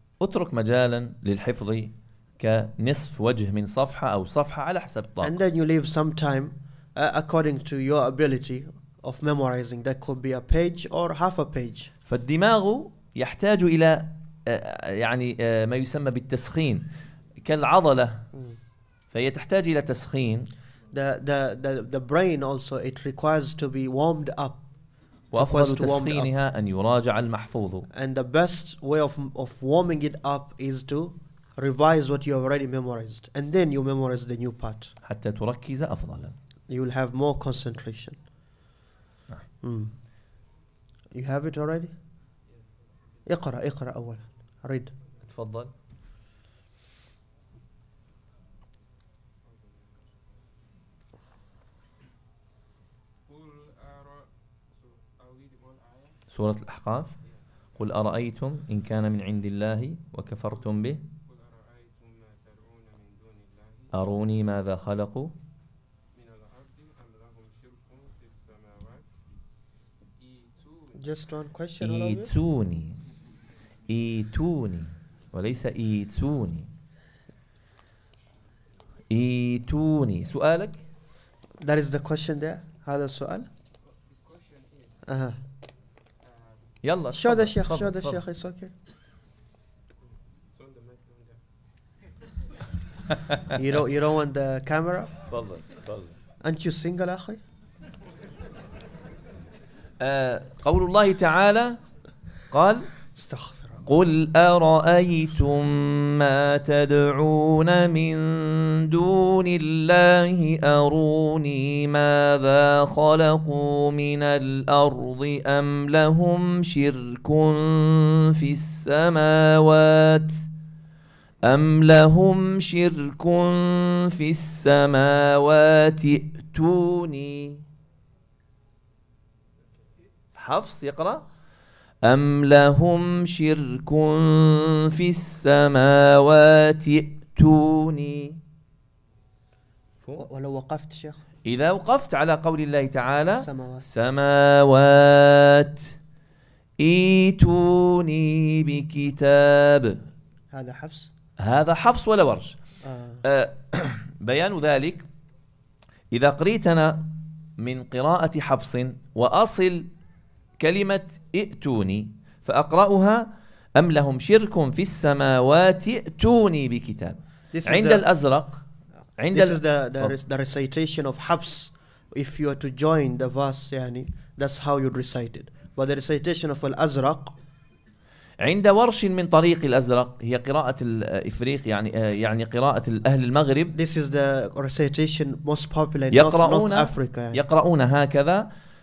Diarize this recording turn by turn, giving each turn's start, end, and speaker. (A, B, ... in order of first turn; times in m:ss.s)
0:00.2-0:05.4 A
0:05.2-0:11.9 B
0:12.1-0:16.9 A
0:17.4-0:18.3 A
0:19.1-0:20.5 A
0:20.9-0:24.6 B
0:25.3-0:26.3 B
0:25.3-0:27.9 A
0:27.9-0:34.9 B
0:35.0-0:36.3 A
0:36.7-0:38.2 B
0:39.6-0:39.9 B
0:41.1-0:41.9 B
0:42.5-0:43.3 C
0:43.3-0:44.9 B
0:45.2-0:45.7 A
0:49.4-0:50.2 C
0:53.3-0:56.2 C
0:56.3-0:57.2 A
0:57.2-0:57.8 C
0:57.8-1:01.0 A
1:01.2-1:03.9 C
1:03.9-1:05.3 A
1:06.1-1:09.2 C
1:10.2-1:11.2 C
1:11.0-1:12.3 B
1:11.8-1:13.0 A
1:13.9-1:16.7 A
1:19.1-1:20.8 A
1:21.6-1:23.5 B
1:24.0-1:25.0 C
1:25.1-1:25.4 B
1:26.2-1:26.8 C
1:26.8-1:28.2 A
1:27.1-1:28.7 B
1:30.5-1:31.5 C
1:33.5-1:35.1 B
1:35.3-1:36.1 A
1:36.4-1:37.4 B
1:40.0-1:41.8 A
1:42.5-1:42.9 A
1:43.2-1:43.8 B
1:43.9-2:00.4 A
2:01.4-2:07.6 A
2:10.4-2:11.2 A
2:12.0-2:18.4 A
2:20.2-2:21.2 B
2:21.5-2:25.9 A
2:23.4-2:23.8 B
2:26.8-2:30.0 A
2:30.5-2:31.1 B
2:31.4-2:32.6 A
2:32.8-2:33.2 B
2:33.2-2:35.0 A
2:36.1-2:39.9 A
2:40.6-2:48.6 A
2:47.5-2:48.1 B
2:49.2-2:50.2 A
2:49.3-2:57.3 B
2:58.4-3:03.8 A
3:03.8-3:07.4 B
3:06.1-3:08.5 A